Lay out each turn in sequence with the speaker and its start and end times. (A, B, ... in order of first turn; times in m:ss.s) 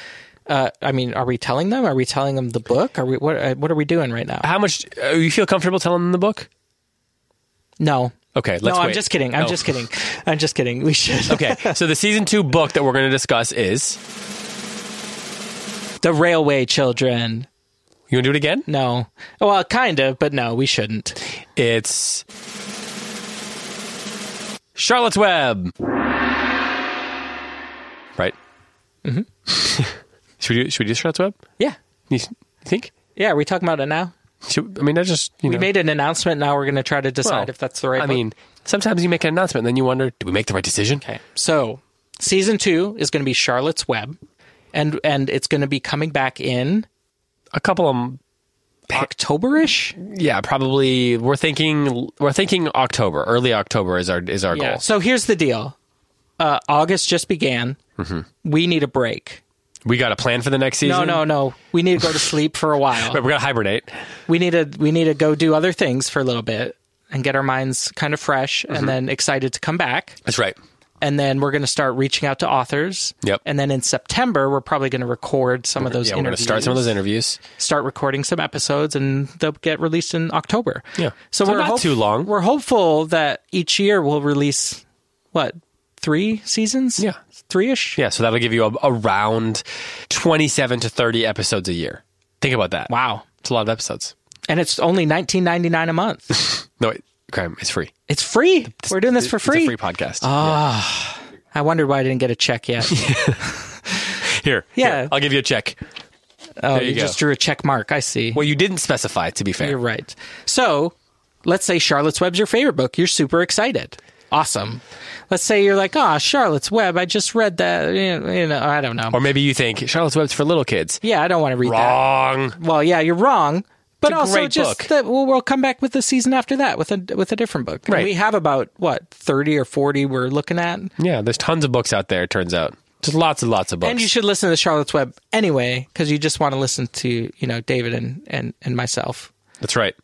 0:00.5-0:04.5 A
0:04.4-0:06.5 B
0:07.8-0:11.8 A
0:08.3-0:09.7 B
0:11.3-0:14.0 B
0:16.0-0:17.5 A
0:18.1-0:18.7 B
0:18.7-0:21.2 A
0:21.6-0:22.2 B
0:24.8-0:25.7 B
0:29.5-0:31.4 B
0:32.1-0:32.9 B
0:33.1-0:34.1 A
0:34.4-0:35.7 B
0:35.4-0:38.2 A
0:37.2-0:41.0 B
0:41.0-0:44.2 A
0:44.7-0:46.9 A
0:47.5-0:48.2 B
0:48.9-0:50.0 A
0:50.0-0:54.8 B
0:54.5-0:55.8 A
0:56.4-0:57.8 A
0:58.0-0:58.2 B
0:58.4-0:59.4 A
0:59.8-1:01.2 B
1:00.8-1:03.2 A
1:03.0-1:03.9 B
1:04.3-1:10.2 A
1:08.7-1:09.0 B
1:10.2-1:10.6 B
1:11.0-1:16.9 A
1:15.8-1:17.4 B
1:17.6-1:24.8 A
1:21.0-1:22.3 B
1:25.3-1:28.0 A
1:28.0-1:34.1 B
1:32.9-1:33.2 A
1:34.5-1:36.4 A
1:36.3-1:37.9 B
1:38.1-1:43.6 A
1:38.8-1:40.6 B
1:42.9-1:43.4 B
1:44.2-1:45.8 B
1:44.8-1:45.1 A
1:46.6-1:48.4 A
1:46.7-1:47.2 B
1:48.3-1:49.8 B
1:49.6-1:50.9 A
1:51.4-1:59.2 A
1:59.1-2:01.0 B
2:01.0-2:10.9 A
2:01.6-2:02.6 B
2:04.0-2:04.9 B
2:11.0-2:14.0 B
2:13.8-2:19.3 A
2:19.6-2:20.0 B